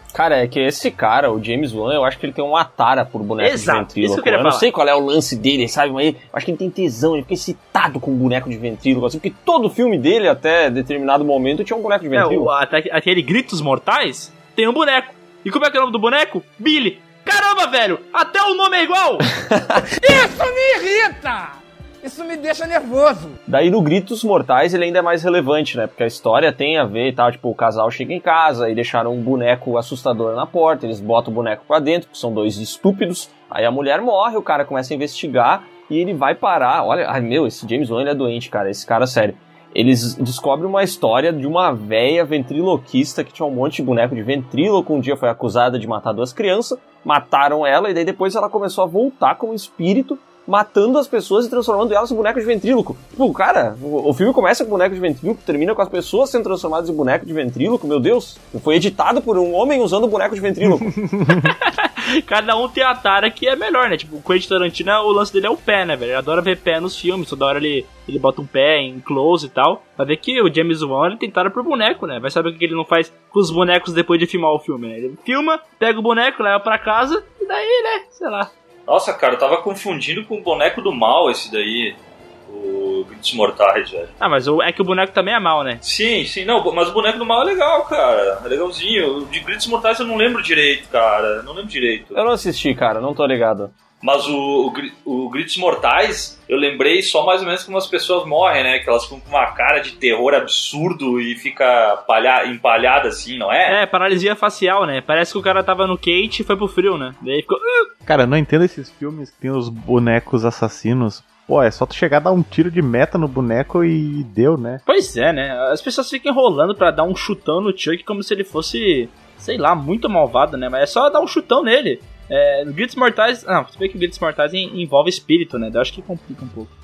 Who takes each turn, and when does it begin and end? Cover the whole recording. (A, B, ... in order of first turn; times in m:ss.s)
0:00.1-0:12.5 A
0:03.4-0:04.6 B
0:12.1-0:19.2 B
0:19.4-0:19.7 A
0:20.0-0:21.5 C
0:22.0-0:23.3 C
0:23.5-1:01.0 A
1:00.8-1:01.5 D
1:01.3-1:18.5 B
1:18.9-1:22.0 E
1:22.5-1:24.1 E
1:24.2-1:25.8 B
1:25.8-1:32.2 E
1:32.1-1:33.7 A
1:34.0-1:43.8 E
1:43.7-1:47.9 B
1:48.0-1:54.8 D
1:54.8-2:06.7 B